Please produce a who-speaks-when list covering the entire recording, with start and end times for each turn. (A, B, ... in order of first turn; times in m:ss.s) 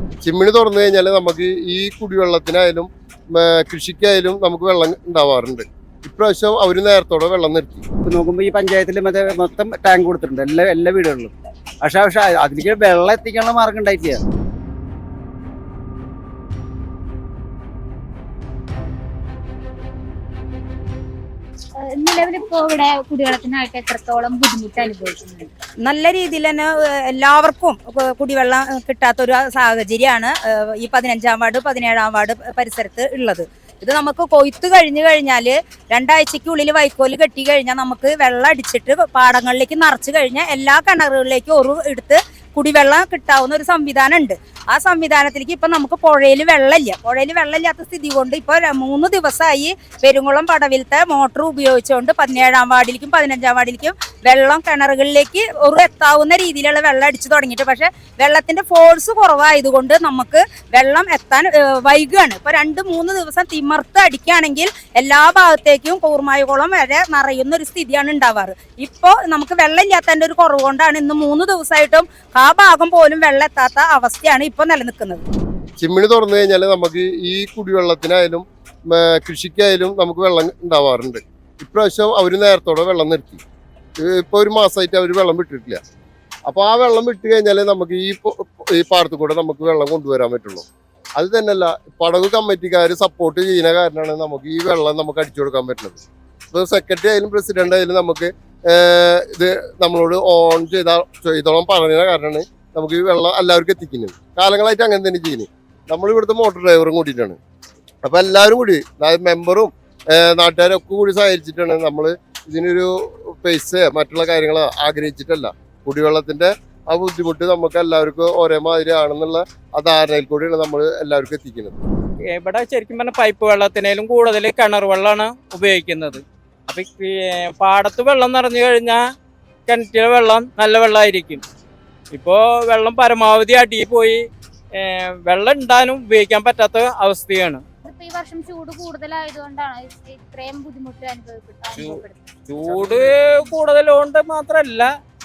0:00.2-0:07.8 A
0:08.0-0:14.2 B
0:21.9-0:25.5 C
0:25.8-1:15.2 D
1:15.8-1:23.4 A
1:24.0-1:25.8 A
1:26.5-1:30.7 A
1:31.2-1:47.4 A
1:48.0-2:01.8 A
2:02.3-2:09.0 E
2:09.7-2:11.4 E
2:12.1-2:14.2 E
2:14.8-2:17.6 E
2:17.8-2:22.4 C
2:21.8-2:24.9 E